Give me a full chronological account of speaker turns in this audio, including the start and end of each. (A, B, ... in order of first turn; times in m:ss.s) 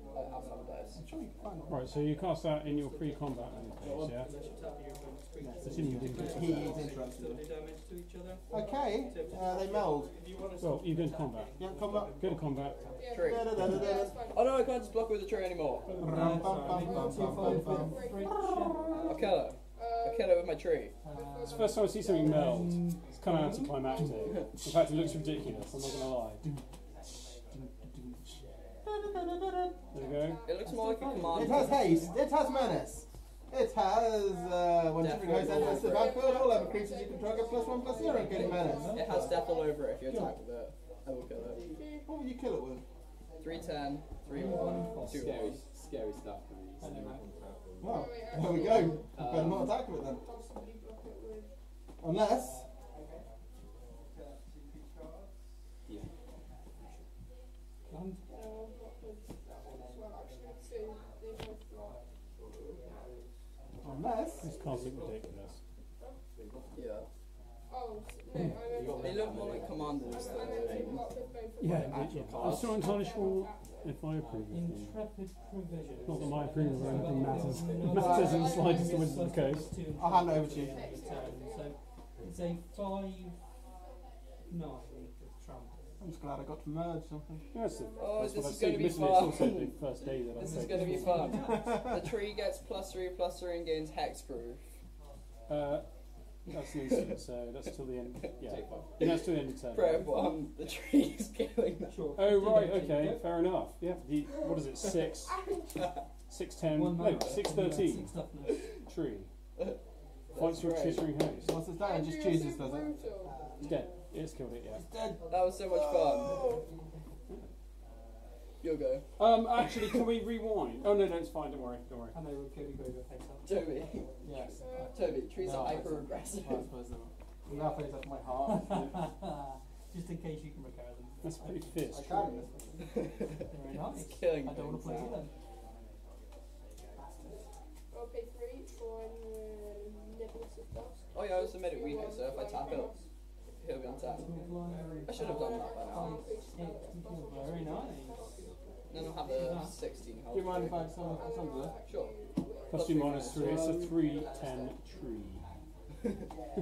0:00.1-0:01.0 A
0:01.0-0:01.7 B
0:01.7-0:04.3 C
0:03.8-0:14.1 D
0:05.4-0:07.4 B
0:05.6-0:07.0 C
0:08.5-0:10.1 B
0:10.6-0:11.6 C
0:11.6-0:12.2 B
0:12.2-0:12.9 C
0:13.0-0:14.7 E
0:13.1-0:13.7 A
0:13.2-0:14.1 B
0:13.6-0:13.8 C
0:14.3-0:15.9 A
0:15.9-0:16.6 C
0:16.0-0:19.6 D
0:16.0-0:19.1 B
0:16.7-0:19.1 E
0:19.1-0:21.0 A
0:19.8-0:20.5 E
0:21.0-0:24.3 D
0:21.1-0:22.4 E
0:21.4-0:26.4 C
0:24.6-0:24.8 B
0:26.4-0:29.8 B
0:29.9-0:30.5 C
0:29.9-0:31.3 E
0:30.4-0:32.0 A
0:30.6-0:32.2 D
0:31.3-0:39.2 B
0:31.8-0:33.0 E
0:34.2-0:39.8 E
0:35.0-0:36.4 A
0:38.0-0:40.3 D
0:38.3-0:41.7 A
0:41.8-0:42.1 E
0:42.1-0:42.8 B
0:43.4-0:45.6 A
0:44.3-0:45.6 D
0:44.3-0:45.1 E
0:45.1-0:47.3 F
0:46.8-0:47.3 D
0:47.8-0:50.2 B
0:47.8-0:49.1 E
0:49.2-0:49.7 F
0:50.2-0:51.5 E
0:52.0-0:52.6 B
0:57.9-0:58.2 D
0:58.3-1:02.0 E
1:02.5-1:03.0 E
1:03.8-1:04.4 B
1:04.4-1:05.6 C
1:06.7-1:07.1 A
1:07.7-1:13.9 E
1:08.3-1:08.6 C
1:08.7-1:11.2 F
1:09.0-1:11.0 A
1:11.6-1:15.0 C
1:11.8-1:12.8 A
1:14.5-1:23.4 D
1:16.0-1:18.2 F
1:16.0-1:19.8 C
1:17.8-1:19.3 E
1:18.0-1:18.3 B
1:20.0-1:21.0 B
1:20.6-1:21.8 E
1:24.5-1:26.0 D
1:26.0-1:27.3 B
1:27.5-1:31.4 C
1:27.6-1:28.3 E
1:28.0-1:34.6 A
1:30.4-1:31.9 D
1:31.4-1:32.0 B
1:35.5-1:35.9 C
1:36.4-1:40.2 C
1:38.4-1:39.1 F
1:39.0-1:42.0 A
1:40.1-1:40.3 E
1:41.9-1:43.4 D
1:42.2-1:45.5 C
1:45.2-1:46.0 E
1:46.3-1:48.1 C
1:46.6-1:48.7 D
1:48.7-1:49.3 C
1:50.3-1:51.1 A
1:50.3-1:51.6 C
1:51.5-1:52.9 B
1:51.7-1:53.4 E
1:53.6-1:54.9 C
1:54.7-1:56.4 B
1:55.3-1:56.4 A
1:58.6-1:59.1 A
1:59.2-2:02.2 C
2:02.1-2:03.5 D
2:03.4-2:04.2 A
2:04.2-2:08.8 B
2:04.6-2:05.2 E
2:04.8-2:06.7 A
2:08.4-2:11.8 D
2:11.2-2:12.3 C
2:11.9-2:12.8 B
2:13.5-2:15.3 D
2:13.9-2:15.2 A
2:17.0-2:17.5 D
2:17.9-2:23.0 E
2:21.1-2:22.9 A
2:23.6-2:24.3 A
2:24.2-2:28.4 D
2:25.0-2:26.2 A
2:25.1-2:29.2 E
2:28.9-2:30.9 A
2:29.0-2:29.8 D
2:30.3-2:31.8 B
2:31.1-2:33.3 E
2:31.9-2:32.1 A
2:32.7-2:33.8 A
2:32.7-2:35.5 C
2:33.3-2:34.0 F
2:34.1-2:34.7 E